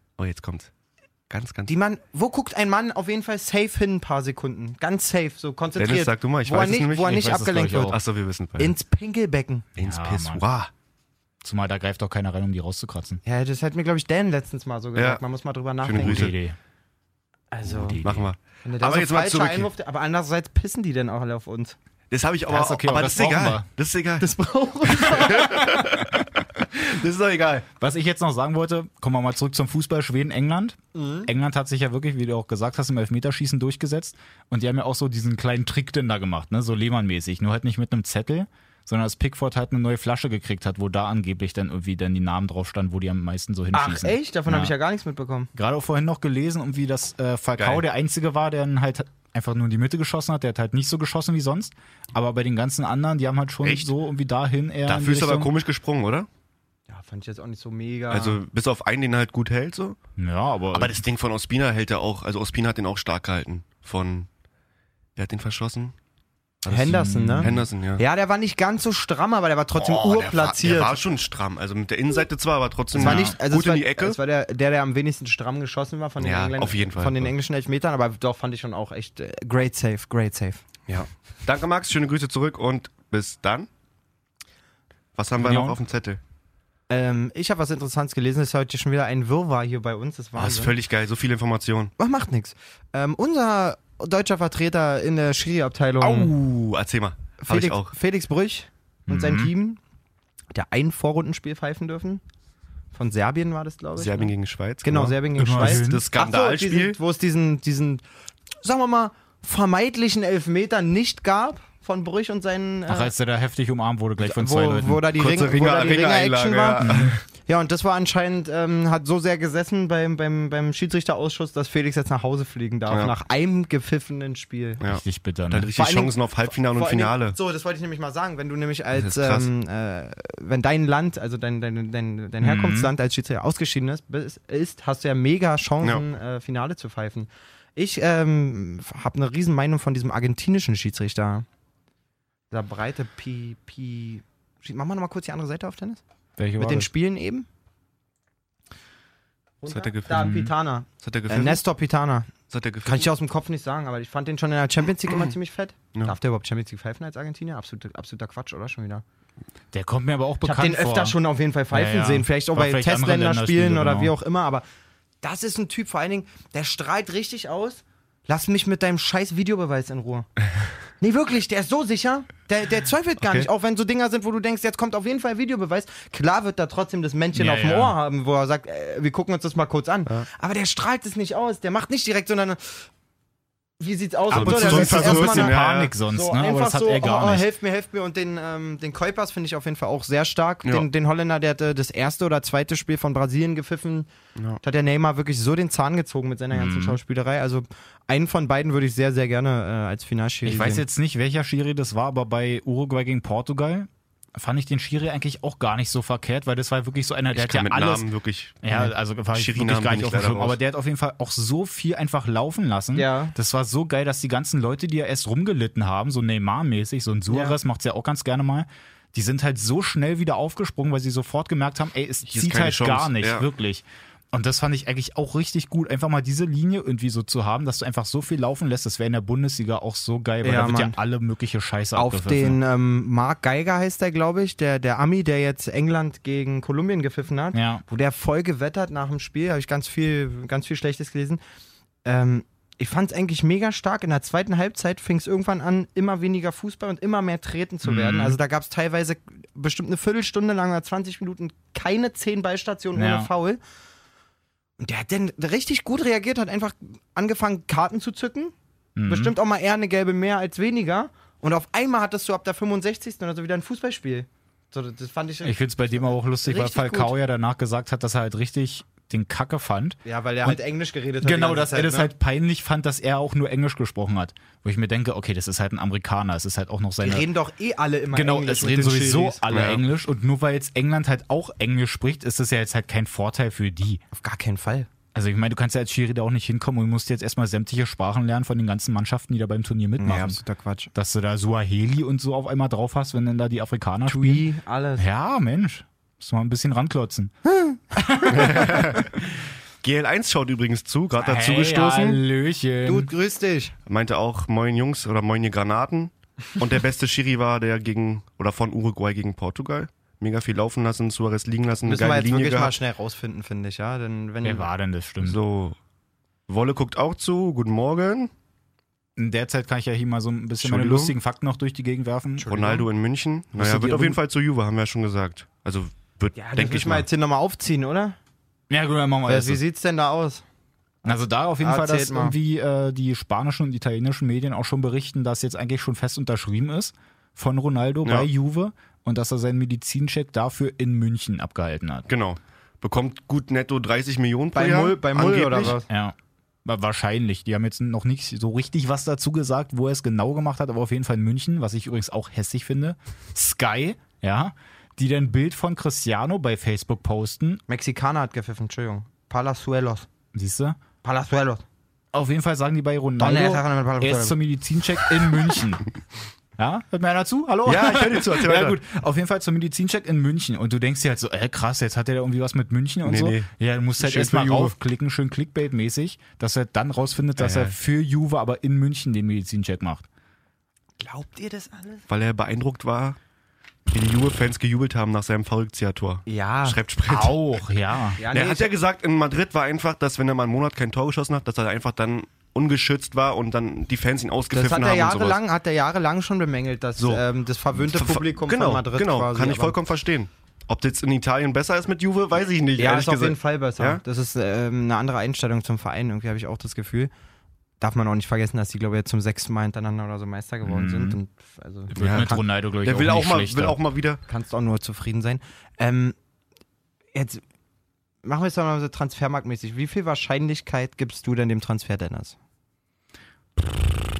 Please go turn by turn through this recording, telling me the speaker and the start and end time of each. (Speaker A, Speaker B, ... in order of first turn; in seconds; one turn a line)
Speaker A: 0.2-0.7
Speaker A: 1.3-1.7
Speaker B: 1.7-8.0
Speaker A: 5.8-7.3
Speaker C: 7.0-8.0
Speaker A: 7.8-8.8
Speaker B: 8.6-9.7
Speaker A: 9.8-10.7
Speaker C: 9.8-10.4
Speaker C: 11.4-13.2
Speaker B: 13.2-16.3
Speaker A: 14.9-15.2
Speaker A: 15.8-16.3
Speaker C: 16.0-16.6
Speaker B: 17.5-18.0
Speaker C: 17.6-18.3
Speaker A: 18.0-19.7
Speaker B: 18.6-21.8
Speaker A: 22.1-24.3
Speaker C: 22.5-23.7
Speaker B: 24.2-25.6
Speaker A: 24.9-27.7
Speaker C: 27.8-44.7
Speaker B: 30.9-31.3
Speaker B: 43.7-45.5
Speaker C: 45.5-55.5
Speaker A: 47.6-47.8
Speaker A: 53.6-53.9
Speaker A: 54.9-56.3
Speaker B: 56.9-58.4
Speaker A: 58.1-60.0
Speaker C: 60.2-61.0
Speaker A: 60.7-64.3
Speaker A: 65.2-65.9
Speaker C: 66.7-67.6
Speaker B: 66.7-71.0
Speaker A: 67.4-68.0
Speaker A: 69.8-74.2
Speaker B: 72.9-80.7
Speaker C: 73.0-73.3
Speaker A: 76.2-77.3
Speaker A: 80.9-83.7
Speaker A: 85.2-86.2
Speaker C: 85.4-85.8
Speaker B: 86.9-90.7
Speaker A: 90.4-91.9
Speaker B: 92.0-96.3
Speaker A: 96.0-97.9
Speaker B: 97.4-99.8
Speaker C: 99.1-99.5
Speaker B: 100.5-102.2
Speaker B: 102.9-104.3
Speaker A: 104.0-107.0
Speaker B: 104.8-108.0
Speaker C: 105.4-106.1
Speaker B: 108.6-113.1
Speaker C: 112.9-115.1
Speaker B: 114.2-124.8
Speaker A: 115.2-117.2
Speaker C: 116.8-117.1
Speaker A: 122.9-123.1
Speaker A: 124.8-127.4
Speaker C: 124.8-125.7
Speaker B: 125.8-141.5
Speaker A: 128.9-129.5
Speaker C: 132.4-132.9
Speaker B: 142.5-146.0
Speaker C: 146.4-146.9
Speaker B: 146.6-147.5
Speaker B: 149.6-152.3
Speaker A: 149.7-150.4
Speaker C: 150.1-150.5
Speaker A: 151.0-151.6
Speaker A: 152.5-153.1
Speaker B: 152.8-159.0
Speaker C: 159.7-161.2
Speaker B: 160.4-164.7
Speaker C: 161.7-164.1
Speaker B: 165.2-170.3
Speaker B: 171.0-182.9
Speaker A: 173.2-173.5
Speaker C: 177.3-178.0
Speaker B: 183.8-194.1
Speaker C: 184.3-187.5
Speaker A: 184.3-185.9
Speaker B: 194.6-200.8
Speaker C: 196.5-197.0
Speaker C: 200.4-208.1
Speaker A: 207.3-208.8
Speaker C: 208.6-232.6
Speaker A: 209.3-210.6
Speaker B: 212.9-213.3
Speaker B: 217.3-217.6
Speaker A: 222.3-223.5
Speaker B: 230.4-231.0
Speaker B: 232.0-241.4
Speaker C: 237.5-237.8
Speaker B: 242.1-253.6
Speaker C: 247.8-248.4
Speaker C: 252.9-253.3
Speaker B: 254.8-258.5
Speaker C: 259.0-259.4
Speaker B: 259.1-267.1
Speaker C: 265.4-270.6
Speaker B: 270.1-272.1
Speaker C: 271.2-277.3
Speaker B: 277.0-279.5
Speaker C: 278.1-284.0
Speaker A: 279.5-279.8
Speaker B: 284.1-284.9
Speaker C: 285.1-290.4
Speaker B: 290.0-290.9
Speaker C: 290.9-294.5
Speaker B: 294.1-295.1
Speaker C: 295.0-297.4
Speaker B: 297.5-297.8
Speaker C: 297.9-299.0
Speaker A: 298.3-299.2
Speaker B: 298.4-298.7
Speaker A: 299.8-302.2
Speaker C: 301.2-303.1
Speaker B: 302.9-303.8
Speaker A: 303.9-312.8
Speaker B: 311.9-314.7
Speaker C: 314.4-315.4
Speaker A: 315.2-315.8
Speaker A: 316.5-318.3
Speaker C: 319.2-322.8
Speaker A: 320.6-321.1
Speaker B: 322.4-322.8
Speaker A: 322.5-327.1
Speaker C: 323.6-324.2
Speaker B: 326.4-328.2
Speaker C: 328.7-329.6
Speaker B: 329.3-330.4
Speaker C: 331.1-342.1
Speaker B: 331.6-332.4
Speaker A: 342.1-345.8
Speaker B: 344.6-345.9
Speaker C: 345.9-357.6
Speaker B: 357.7-360.1
Speaker C: 360.3-360.8
Speaker B: 361.0-361.6
Speaker C: 362.1-365.9
Speaker B: 363.2-364.4
Speaker C: 366.6-380.1
Speaker A: 367.6-368.8
Speaker A: 373.0-374.8
Speaker A: 377.4-377.8
Speaker B: 381.0-382.0
Speaker A: 382.1-383.2
Speaker A: 383.9-387.4
Speaker B: 386.3-386.8
Speaker C: 387.1-388.2
Speaker B: 388.2-388.7
Speaker A: 388.3-395.4
Speaker B: 394.5-399.8
Speaker A: 397.0-397.2
Speaker A: 397.8-404.0
Speaker B: 402.8-407.1
Speaker B: 407.8-412.4
Speaker C: 410.7-411.1
Speaker C: 411.9-413.8
Speaker A: 412.0-414.2
Speaker B: 414.3-416.2
Speaker B: 417.1-417.4
Speaker B: 418.2-422.4